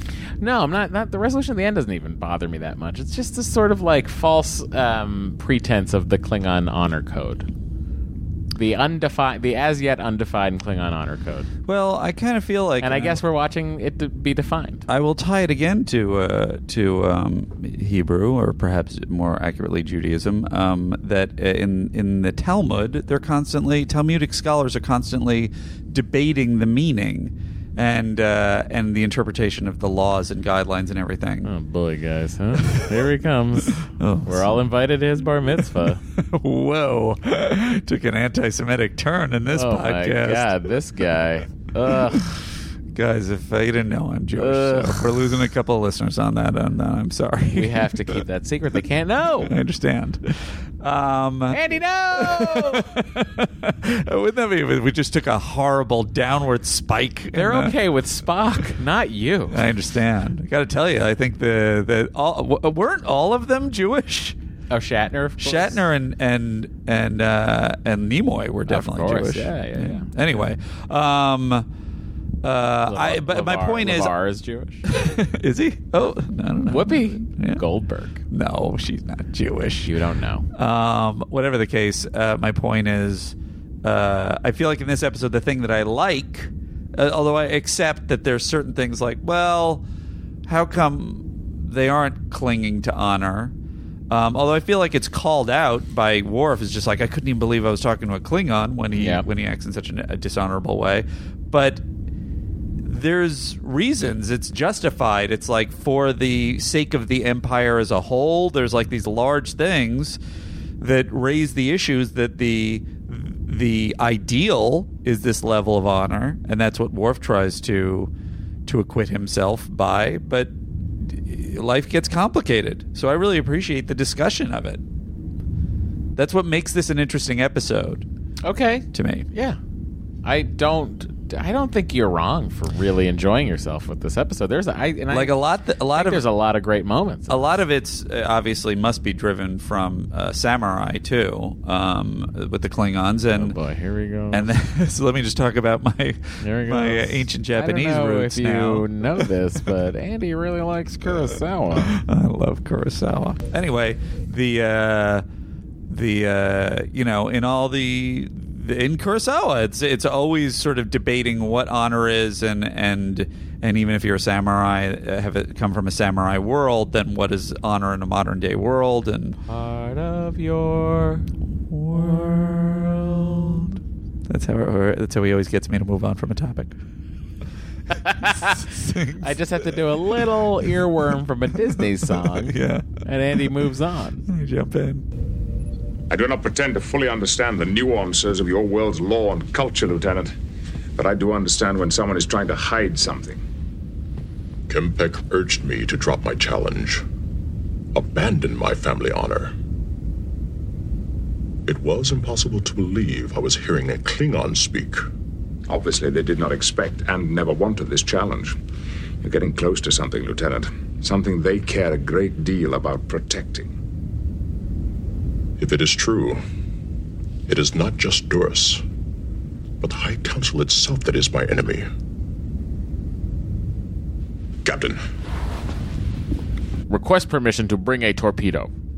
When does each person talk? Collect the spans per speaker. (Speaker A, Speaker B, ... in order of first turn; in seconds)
Speaker A: 0.4-7.5, 8.6-11.5, 12.8-14.9, 31.4-36.0, 39.5-42.3, 44.4-45.2, 47.5-49.5, 51.5-52.9, 57.3-59.6, 64.7-65.8, 68.7-70.1, 72.9-74.8, 76.7-78.2, 79.8-80.5, 98.9-99.3, 128.4-129.6, 130.2-135.4, 135.9-137.5, 143.3-144.5, 146.4-152.0, 169.5-171.3, 178.1-178.6, 179.2-184.3, 226.9-228.7
Speaker B: 11.7-13.2, 14.9-31.5, 34.0-34.5, 36.2-40.6, 42.2-42.4, 42.9-48.2, 49.4-51.6, 52.1-57.8, 59.5-64.4, 65.4-71.7, 72.4-74.1, 74.9-77.6, 78.3-79.9, 80.5-89.8, 90.5-93.5, 94.1-101.8, 102.8-110.2, 110.8-118.1, 118.7-124.8, 126.2-128.1, 128.9-129.3, 135.1-136.2, 137.3-143.6, 144.3-149.2, 151.8-155.2, 155.9-169.4, 171.7-176.8, 178.2-180.3, 181.7-182.9, 184.3-185.1
Speaker C: 186.1-190.3, 191.0-193.4, 205.7-208.6, 209.2-213.7
Speaker D: 194.7-197.0, 197.9-199.5, 201.7-205.0, 215.6-216.4, 217.5-218.8, 219.8-221.9, 224.7-225.0